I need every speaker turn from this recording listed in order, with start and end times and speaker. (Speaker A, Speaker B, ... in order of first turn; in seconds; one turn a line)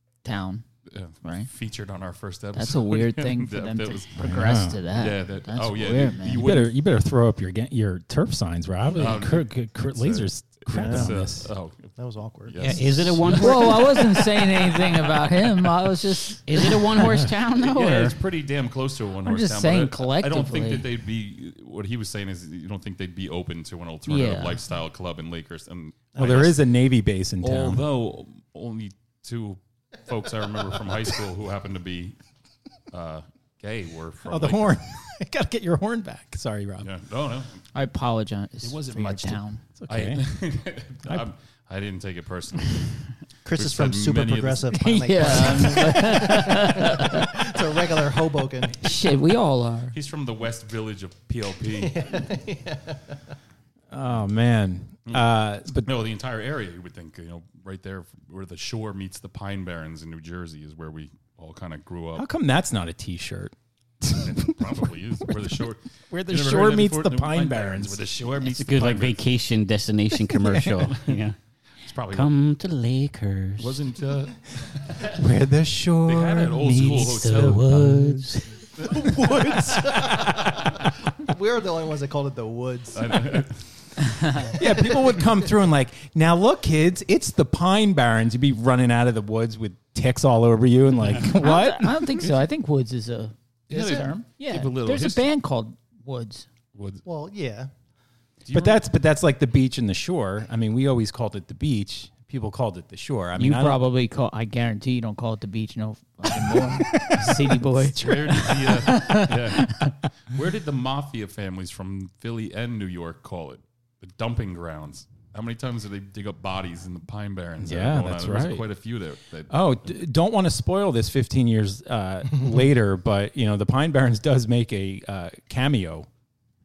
Speaker A: 0.2-0.6
Speaker B: 0.9-4.3
Speaker A: 1.2-1.5
Speaker A: 2.5-6.5
Speaker C: 4.2-4.8
Speaker B: 4.9-6.7
Speaker C: 6.4-11.5
Speaker B: 8.9-15.0
Speaker D: 10.7-11.1
Speaker D: 12.0-12.8
Speaker E: 12.6-13.9
Speaker A: 13.3-17.0
Speaker E: 16.4-18.1
Speaker B: 17.5-26.6
Speaker A: 19.2-20.9
Speaker A: 24.1-24.6
Speaker C: 26.1-27.9
Speaker B: 27.4-32.1
Speaker B: 32.9-34.8
Speaker C: 34.2-36.9
Speaker B: 36.8-37.6
Speaker A: 37.7-39.6
Speaker B: 38.6-43.0
Speaker C: 39.8-40.2
Speaker D: 43.4-48.9
Speaker B: 43.5-45.8
Speaker A: 44.7-47.2
Speaker A: 48.8-49.9
Speaker B: 49.9-52.0
Speaker D: 51.8-53.1
Speaker C: 53.9-55.9
Speaker B: 55.1-62.3
Speaker C: 62.1-68.2
Speaker B: 64.3-69.2
Speaker E: 68.5-71.3
Speaker C: 70.3-70.9
Speaker B: 71.8-72.3
Speaker E: 72.1-73.8
Speaker B: 73.6-75.2
Speaker C: 75.0-78.3
Speaker B: 76.0-77.7
Speaker E: 76.8-78.5
Speaker B: 78.8-80.5
Speaker D: 78.9-83.5
Speaker C: 79.2-80.3
Speaker B: 82.9-83.6
Speaker A: 84.0-84.5
Speaker C: 84.5-92.0
Speaker D: 84.6-85.3
Speaker A: 91.3-96.5
Speaker B: 93.7-95.3
Speaker B: 96.7-97.0
Speaker D: 97.0-97.7
Speaker B: 98.4-98.8
Speaker C: 98.5-103.8
Speaker A: 103.4-109.9
Speaker C: 106.5-108.7
Speaker B: 107.9-119.6
Speaker C: 117.6-118.7
Speaker C: 119.5-126.1